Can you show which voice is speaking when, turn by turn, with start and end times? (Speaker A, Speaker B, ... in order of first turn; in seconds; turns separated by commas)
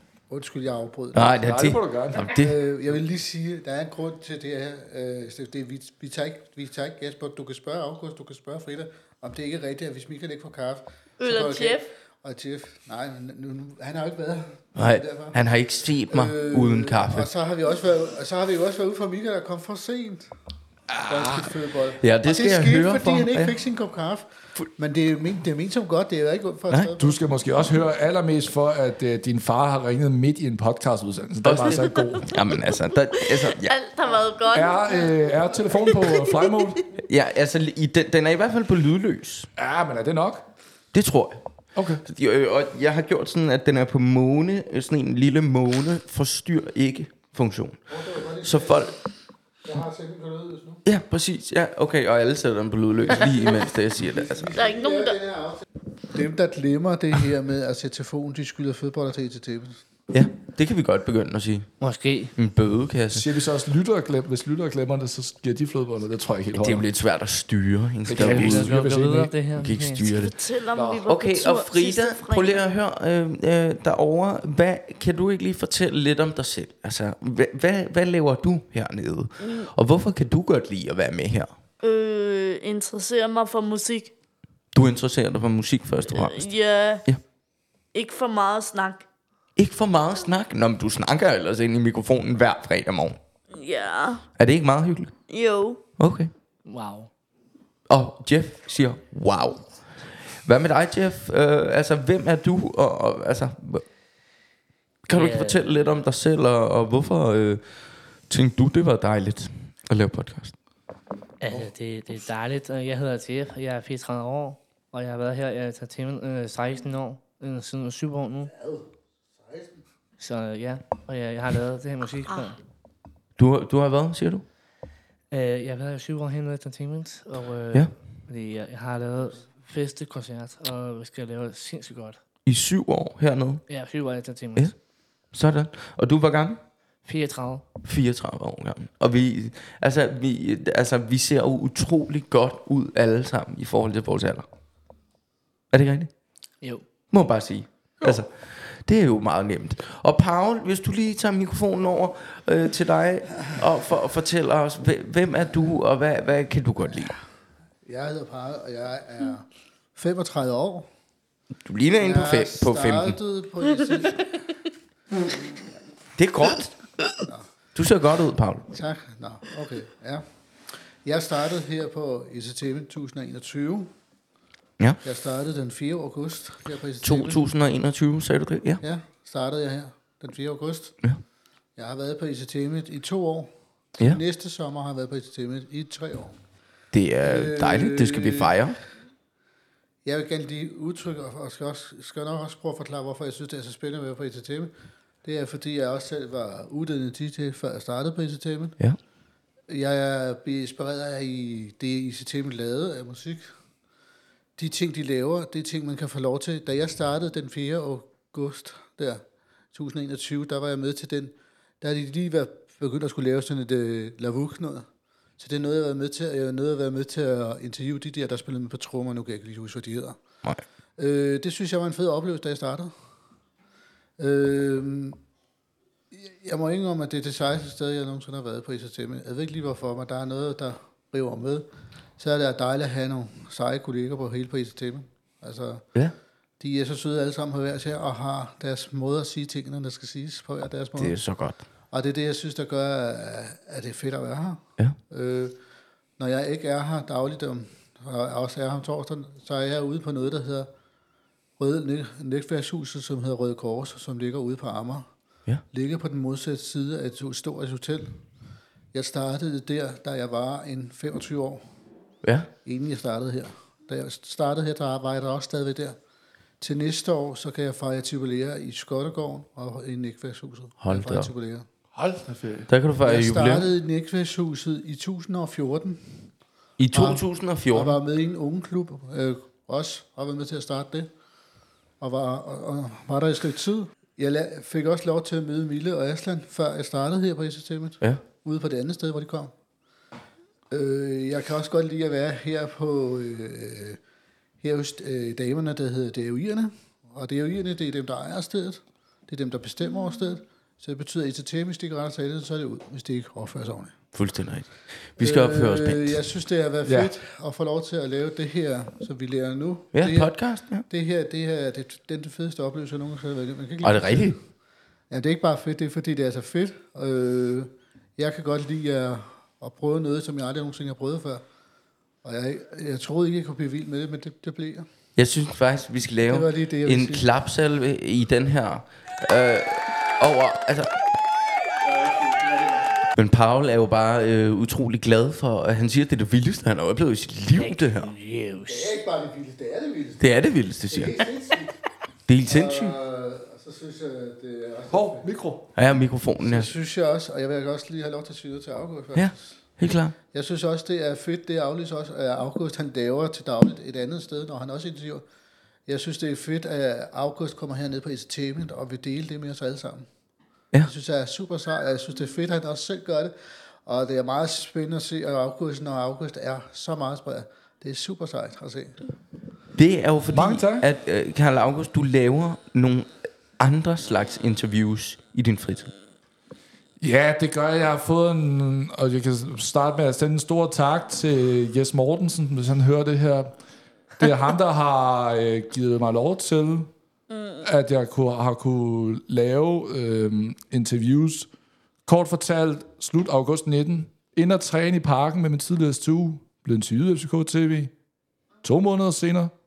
Speaker A: 0.3-1.5, Speaker B: 1.1-2.5, Speaker C: 1.4-2.3, Speaker A: 2.3-15.4, Speaker D: 11.2-11.9, Speaker B: 14.8-17.3, Speaker A: 16.1-20.3, Speaker C: 20.9-21.5, Speaker A: 21.1-27.4, Speaker B: 22.0-23.6, Speaker C: 27.0-32.3, Speaker B: 31.4-33.8, Speaker D: 31.8-36.8, Speaker C: 34.5-36.9, Speaker B: 37.0-39.5, Speaker C: 39.6-40.4, Speaker B: 40.9-41.4, Speaker C: 41.8-42.0, Speaker B: 42.0-48.9, Speaker A: 47.9-49.0, Speaker A: 49.6-50.8, Speaker B: 50.9-54.5, Speaker A: 53.2-59.8, Speaker D: 54.5-55.2, Speaker B: 60.1-61.7, Speaker E: 61.8-62.3, Speaker B: 62.4-63.3, Speaker C: 63.1-66.8, Speaker B: 66.5-68.8, Speaker C: 68.1-69.3, Speaker E: 68.2-70.1, Speaker B: 69.6-70.4, Speaker D: 70.1-72.6, Speaker C: 70.7-71.0, Speaker B: 71.1-81.5, Speaker D: 79.4-79.7, Speaker D: 81.8-84.1, Speaker B: 84.7-86.5, Speaker D: 86.1-87.0, Speaker D: 87.9-89.0, Speaker B: 89.6-93.2, Speaker D: 93.5-94.2, Speaker B: 94.4-95.2, Speaker D: 95.3-95.8, Speaker B: 96.0-96.3, Speaker E: 96.7-97.1, Speaker B: 97.9-99.6, Speaker B: 100.4-103.8, Speaker B: 105.1-107.6, Speaker E: 105.1-105.6, Speaker B: 108.3-110.5, Speaker E: 111.4-118.5, Speaker A: 118.5-119.8, Speaker E: 120.2-122.6, Speaker B: 123.4-124.4, Speaker E: 125.3-132.2, Speaker B: 132.5-133.6, Speaker E: 133.7-134.7, Speaker B: 135.3-136.6, Speaker E: 137.0-137.7, Speaker B: 137.8-144.5, Speaker B: 145.7-146.1, Speaker B: 147.1-157.2, Speaker A: 157.8-160.9, Speaker B: 161.7-163.2, Speaker A: 162.0-164.4, Speaker B: 166.2-166.8, Speaker B: 167.8-168.7, Speaker A: 168.7-170.2, Speaker A: 171.0-173.9, Speaker A: 175.0-177.4, Speaker B: 177.0-178.8, Speaker A: 178.8-181.0, Speaker A: 181.8-186.4, Speaker B: 186.9-188.8, Speaker A: 187.2-188.6, Speaker A: 190.1-194.7, Speaker A: 195.2-198.8, Speaker A: 199.7-203.6, Speaker A: 204.6-214.9, Speaker A: 215.4-220.2, Speaker A: 221.0-222.9, Speaker A: 224.2-225.2, Speaker A: 226.1-231.7, Speaker A: 232.2-235.9, Speaker A: 236.6-241.2, Speaker B: 241.0-241.6, Speaker A: 241.9-245.6, Speaker A: 246.2-250.7, Speaker A: 251.6-255.1, Speaker A: 255.7-258.2, Speaker A: 258.9-261.6, Speaker B: 262.2-262.5, Speaker A: 262.6-266.0, Speaker A: 266.6-271.7, Speaker B: 270.8-271.3, Speaker C: 271.9-272.7, Speaker B: 272.7-273.7, Speaker A: 273.0-276.3, Speaker B: 276.8-278.0, Speaker A: 276.9-281.1, Speaker A: 282.0-289.5, Speaker A: 290.7-294.0, Speaker A: 294.6-304.0, Speaker B: 304.1-306.2, Speaker A: 305.2-310.3, Speaker C: 306.9-307.1, Speaker B: 309.9-310.9, Speaker A: 310.9-314.4, Speaker B: 313.8-314.4, Speaker A: 315.1-321.4, Speaker A: 322.2-324.9, Speaker B: 325.2-330.9, Speaker A: 326.3-327.3, Speaker A: 331.8-333.0, Speaker B: 333.2-338.1, Speaker E: 337.6-338.9, Speaker A: 338.7-341.8, Speaker B: 340.2-341.3, Speaker B: 342.3-343.0, Speaker A: 342.4-345.3, Speaker C: 344.9-345.7, Speaker B: 345.8-346.7, Speaker A: 346.4-349.6, Speaker B: 349.1-350.1, Speaker A: 350.3-355.2, Speaker A: 355.9-360.1, Speaker A: 360.8-363.3, Speaker A: 363.9-369.0, Speaker B: 369.8-375.9, Speaker C: 370.3-370.9, Speaker C: 377.0-383.6, Speaker C: 384.2-386.9, Speaker D: 387.3-387.7, Speaker C: 387.6-391.5, Speaker C: 392.1-397.9, Speaker C: 398.6-399.5